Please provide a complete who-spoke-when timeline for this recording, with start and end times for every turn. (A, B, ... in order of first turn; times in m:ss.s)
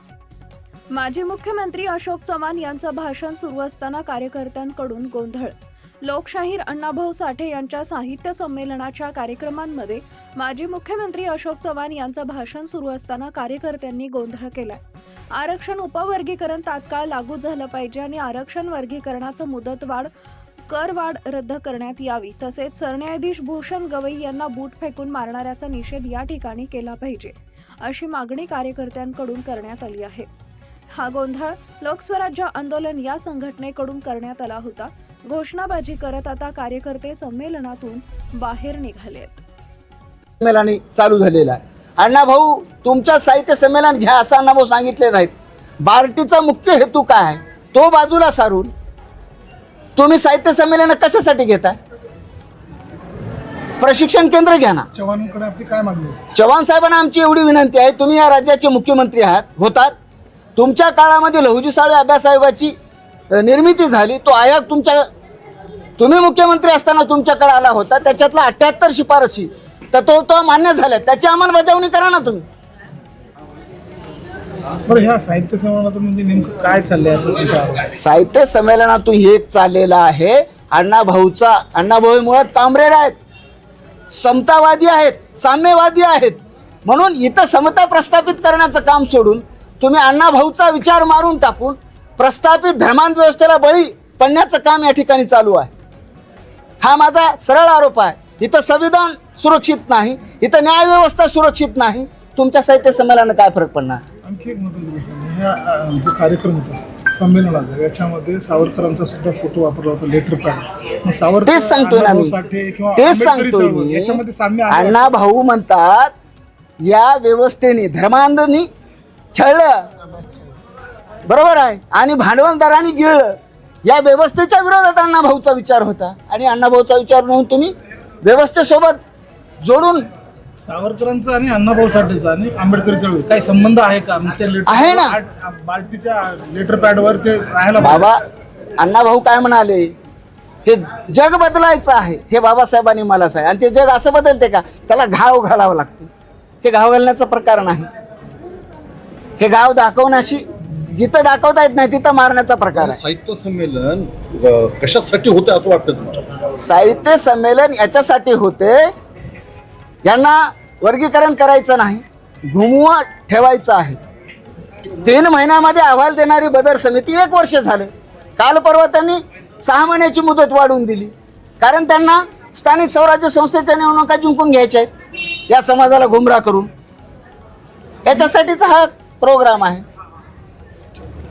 0:00.9-0:14.8 A
0:15.3-0:20.1 A
0:20.7-0:30.3 A
0:30.9-0:39.4 A
0:40.4-0:48.7 B
0:50.0-0:51.8 B
0:53.8-0:54.9 B
0:54.9-0:56.2 C
0:56.3-0:59.9 B
1:00.6-1:02.7 B
1:03.3-1:05.0 B
1:06.0-1:12.4 B
1:14.8-1:17.9 C
1:18.0-1:23.2 B
1:24.1-1:35.7 B
1:36.8-1:44.0 B
1:44.2-1:55.1 C
1:51.4-1:52.3 B
1:53.0-1:56.1 B
1:56.8-1:58.7 B
1:59.3-1:59.9 B
2:01.3-2:07.7 B
2:08.2-2:09.0 B
2:09.6-2:10.1 B
2:10.6-2:18.1 C
2:14.7-2:15.1 B
2:17.8-2:18.2 B
2:18.8-2:19.9 B
2:20.6-2:26.1 B
2:26.6-2:27.9 B
2:29.4-2:33.0 B
2:33.0-2:36.2 D
2:36.6-2:38.9 B
2:40.0-2:44.0 B
2:45.0-2:54.9 B
2:55.5-2:56.7 B
2:58.0-2:59.8 B